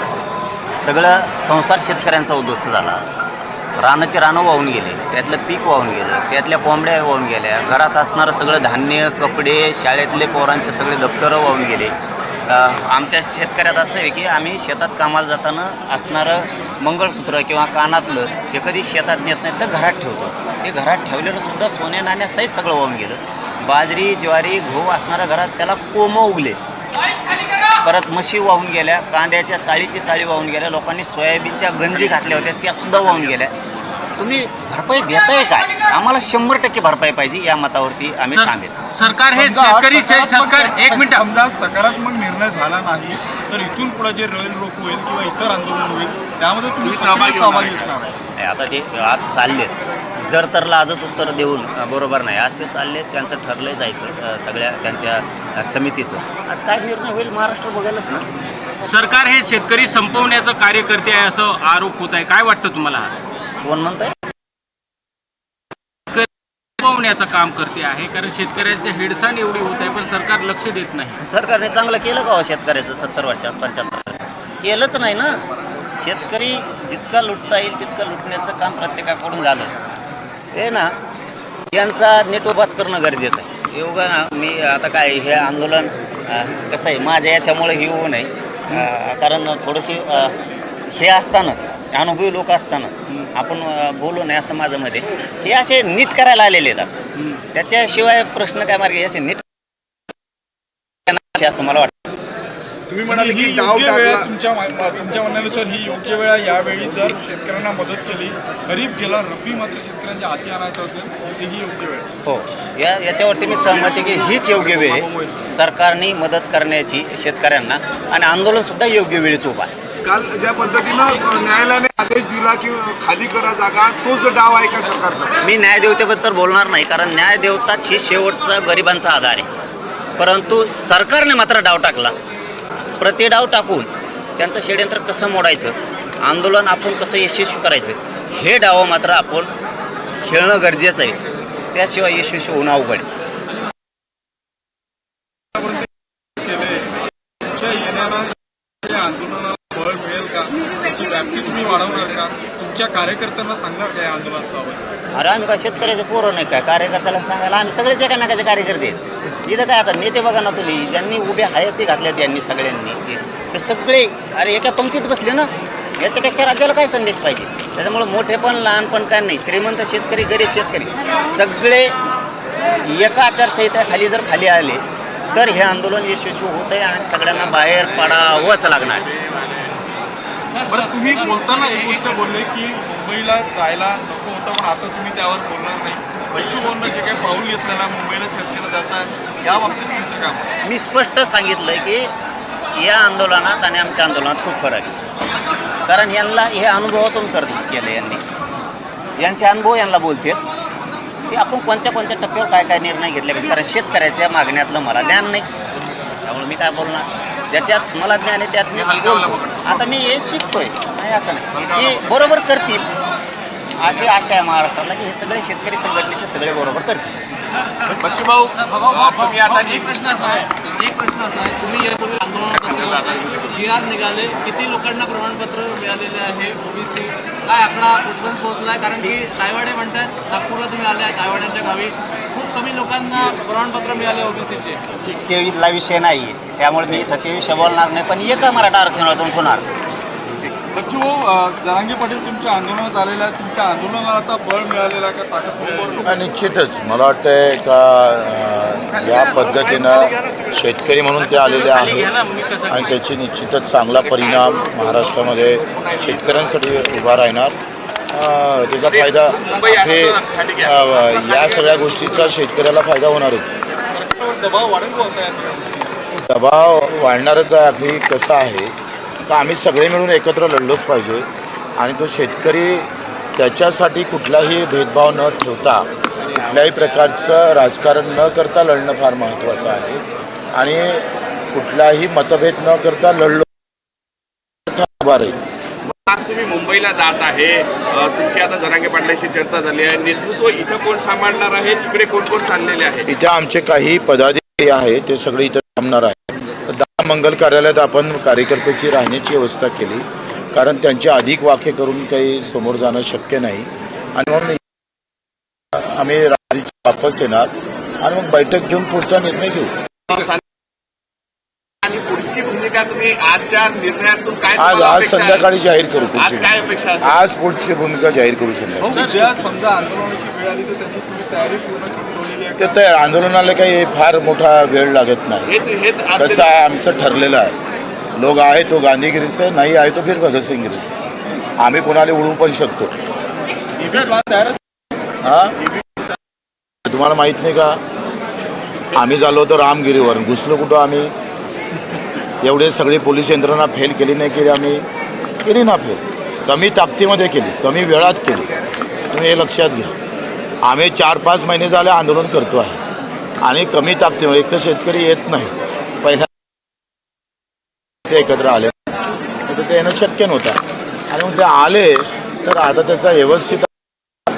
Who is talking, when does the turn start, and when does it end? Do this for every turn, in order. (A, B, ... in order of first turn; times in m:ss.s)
0:00.8-0:03.0 A
0:03.8-0:11.9 A
0:12.5-0:26.6 A
0:27.8-0:33.5 A
0:34.2-0:38.7 A
0:38.3-0:41.2 B
0:39.3-0:48.1 C
0:46.8-0:47.8 D
0:48.4-0:58.3 A
0:58.8-1:03.1 B
1:03.6-1:04.1 A
1:06.8-1:11.2 B
1:11.2-1:15.4 A
1:16.0-1:19.7 A
1:20.5-1:20.9 A
1:21.7-1:30.3 A
1:30.9-1:36.9 A
1:37.5-1:39.4 A
1:41.1-1:41.9 A
1:42.9-1:44.3 E
1:43.1-1:52.1 C
1:52.2-1:59.7 A
1:53.7-1:55.5 C
2:00.0-2:05.3 E
2:05.4-2:09.5 A
2:10.2-2:12.1 A
2:13.0-2:19.5 A
2:20.2-2:21.2 A
2:21.7-2:23.1 A
2:25.5-2:26.9 C
2:27.5-2:34.8 C
2:35.2-2:51.9 A
2:52.8-2:59.1 A
3:00.5-3:02.2 F
3:00.7-3:10.5 C
3:10.6-3:12.1 A
3:12.7-3:15.0 A
3:15.9-3:18.2 A
3:19.2-3:20.4 A
3:21.3-3:25.5 A
3:26.2-3:32.8 A
3:28.8-3:29.7 D
3:31.6-3:32.0 D
3:33.8-3:37.1 A
3:37.9-3:39.9 D
3:38.6-3:54.8 F
3:42.5-3:43.5 D
3:55.1-3:59.6 A
4:00.7-4:06.1 C
4:05.7-4:06.0 D
4:06.0-4:12.1 G
4:11.2-4:12.9 B
4:12.7-4:17.6 G
4:14.0-4:16.5 D
4:18.1-4:23.5 G
4:18.8-4:21.9 D
4:23.9-4:25.9 C
4:26.1-4:28.7 G
4:29.3-4:31.2 G
4:31.8-4:40.0 G
4:40.5-4:43.5 G
4:44.7-4:45.4 G
4:45.9-4:53.1 D
4:53.0-5:04.6 G
5:05.7-5:09.7 G
5:10.1-5:10.4 D
5:11.8-5:15.5 D
5:14.5-5:19.0 G
5:16.2-5:17.2 D
5:18.8-5:22.8 C
5:22.6-5:25.5 G
5:25.5-5:26.5 D
5:26.2-5:27.6 G
5:28.2-5:30.9 G
5:31.6-5:32.9 G
5:33.8-5:34.6 C
5:35.2-5:35.6 G
5:36.8-5:37.8 G
5:38.9-5:41.1 G
5:42.4-5:44.8 G
5:45.4-5:48.5 G
5:49.1-5:49.9 G
5:50.6-5:52.8 G
5:53.4-5:56.3 G
5:58.1-5:58.7 G
5:59.5-6:00.6 G
6:01.1-6:03.7 G